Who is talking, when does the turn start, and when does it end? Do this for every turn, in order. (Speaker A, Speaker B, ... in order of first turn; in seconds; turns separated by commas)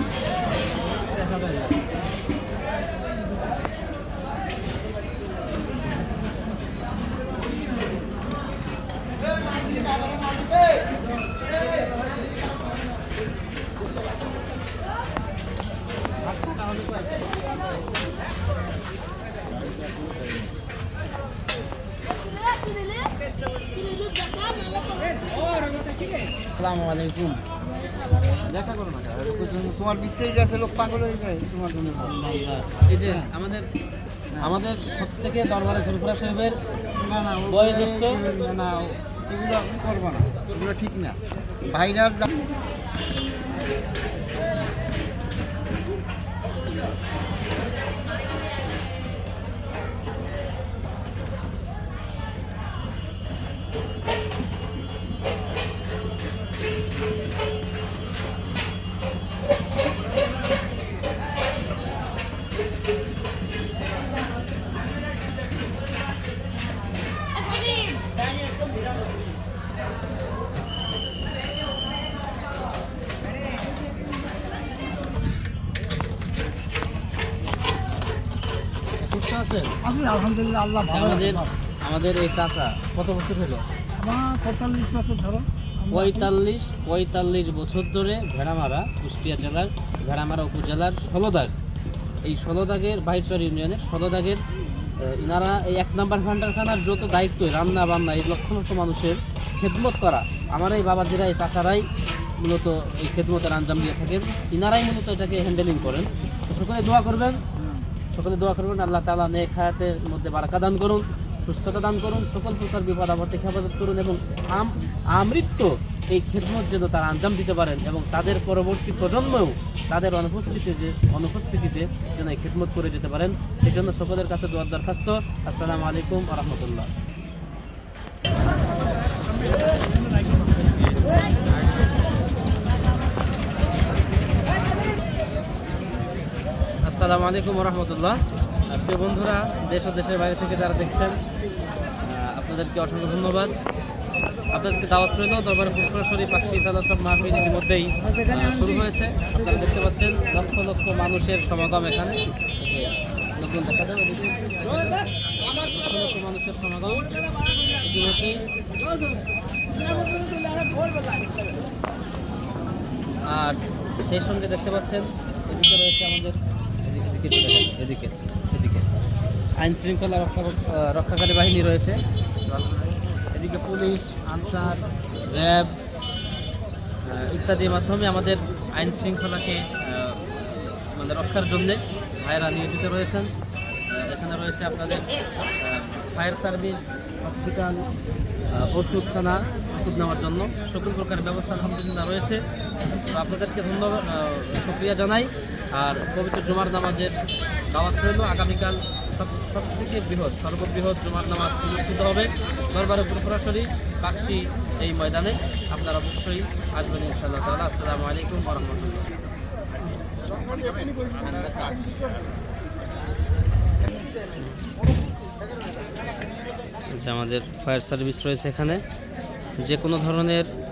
Speaker A: 0.8-1.8, Speaker B: 19.5-20.5, Speaker A: 26.6-27.4, Speaker B: 28.5-32.2, Speaker A: 32.0-33.7, Speaker B: 33.0-33.3, Speaker A: 34.4-36.6, Speaker B: 37.0-42.3, Speaker A: 37.5-38.2, Speaker A: 79.0-79.7, Speaker A: 80.9-83.6, Speaker A: 85.9-91.5, Speaker A: 92.2-94.4, Speaker A: 95.0-101.8, Speaker A: 102.4-107.4, Speaker A: 108.1-126.9, Speaker A: 136.8-138.2, Speaker A: 138.7-141.2, Speaker A: 142.0-143.5, Speaker A: 144.5-157.1, Speaker A: 157.8-158.4, Speaker A: 163.3-168.8, Speaker A: 169.6-172.0, Speaker A: 173.3-175.7, Speaker A: 177.1-180.4, Speaker A: 180.9-183.3, Speaker A: 183.9-185.1, Speaker A: 185.6-187.8, Speaker A: 188.5-192.4, Speaker A: 193.1-197.1, Speaker A: 197.7-209.1, Speaker B: 210.2-212.2, Speaker A: 214.4-214.6, Speaker A: 216.9-218.8, Speaker A: 219.6-220.5